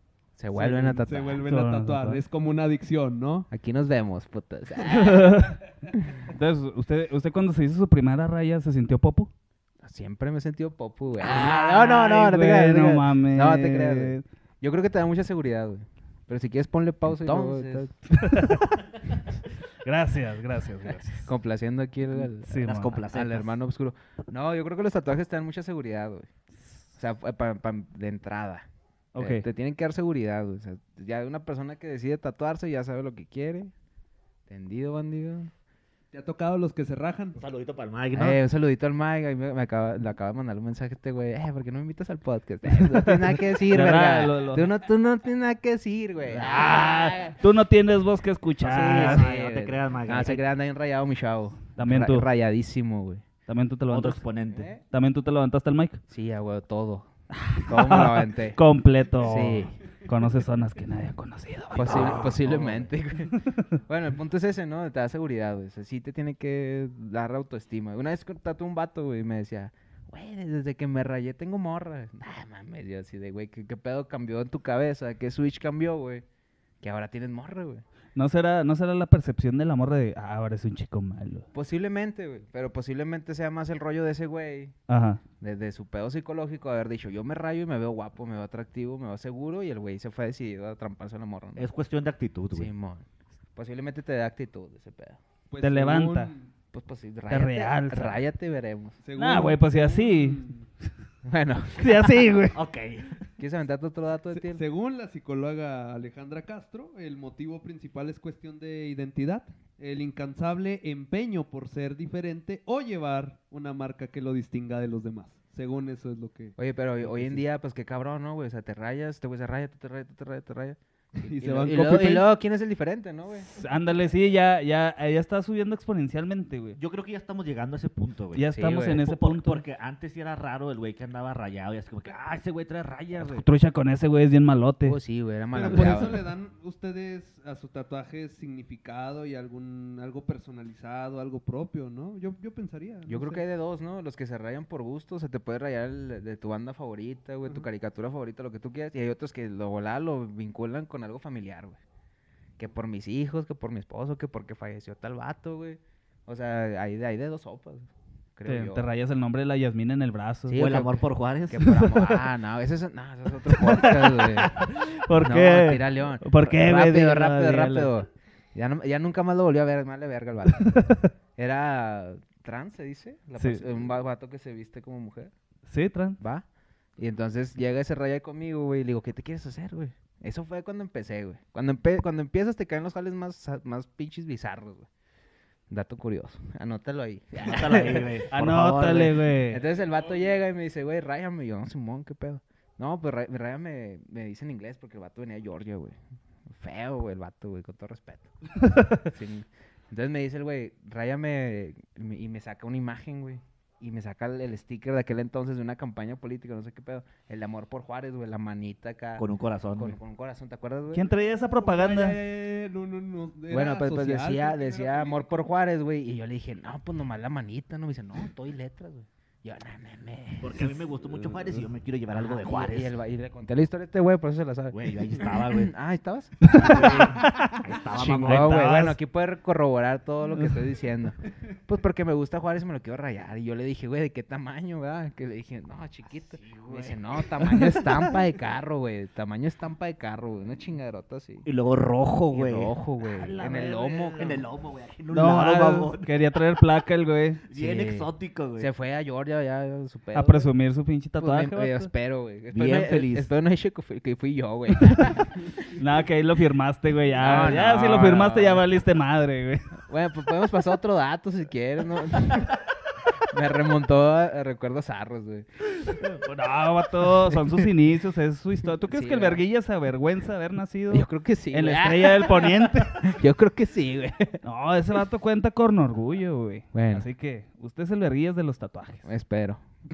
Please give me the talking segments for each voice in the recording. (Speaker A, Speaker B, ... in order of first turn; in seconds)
Speaker A: 0.4-1.4, 3.5-5.4, 9.8-17.9, 21.2-26.3, 26.9-28.6, 29.2-33.7, 34.5-35.5, 38.1-47.4, 48.6-53.2, 54.5-54.8, 56.1-57.1, 57.6-58.6, 59.2-59.8, 61.8-76.2, 76.8-77.8, 81.5-84.8, 85.4-91.7, 92.5-93.0, 93.6-95.2, 96.7-99.0, 101.2-102.2, 103.4-104.6, 116.6-123.5, 128.5-129.0, 134.8-136.2, 143.1-151.8, 152.6-158.9, 160.5-170.8, 171.4-175.3, 176.2-176.4, 177.0-184.9, 185.7-188.2, 189.5-195.9, 196.5-198.3, 199.0-211.1, 213.5-221.6, 222.1-227.3, 227.9-231.2, 231.7-241.4, 242.3-244.4, 247.5-250.5, 251.2-255.5, 257.2-258.6, 259.9-262.6, 263.3-265.4, 267.3-267.7, 268.9-269.4, 270.9-274.4, 276.7-277.1, 279.1-279.6
Speaker B: 0.5-3.5, 36.1-37.4, 95.5-96.5, 99.0-100.7, 104.3-117.4, 121.2-122.3, 135.5-143.4, 211.5-215.3
Speaker C: 1.4-2.2, 4.8-5.6, 6.2-9.3, 11.2-14.2, 18.1-21.3, 22.4-23.0, 29.1-29.4, 42.9-44.7, 46.3-49.2, 51.8-52.3, 53.5-54.2, 54.9-56.0, 57.3-62.4, 63.3-63.6, 78.1-81.5, 84.9-85.2, 95.6-96.3, 97.3-98.2, 99.2-100.4, 101.7-102.6, 123.5-126.8, 128.3-129.6, 133.2-135.0, 158.4-160.6, 161.6-162.2, 163.5-167.9, 170.6-171.1, 173.4-173.6, 175.7-176.2, 188.3-189.6, 198.7-199.0, 210.9-212.2, 226.4-228.9, 243.2-243.7, 245.1-247.4, 250.1-251.9, 255.7-259.7, 265.8-273.2, 274.4-279.1
Speaker D: 22.6-23.5, 37.4-38.4, 48.6-50.4, 53.9-54.7, 61.8-62.7, 91.6-92.7, 102.5-103.2, 126.8-128.4, 129.0-133.4, 160.5-161.7, 187.4-189.2, 209.2-210.0, 220.4-222.9, 224.7-225.7, 226.4-228.9, 236.3-237.9, 241.4-242.7, 243.3-246.1, 247.5-248.7, 252.5-253.3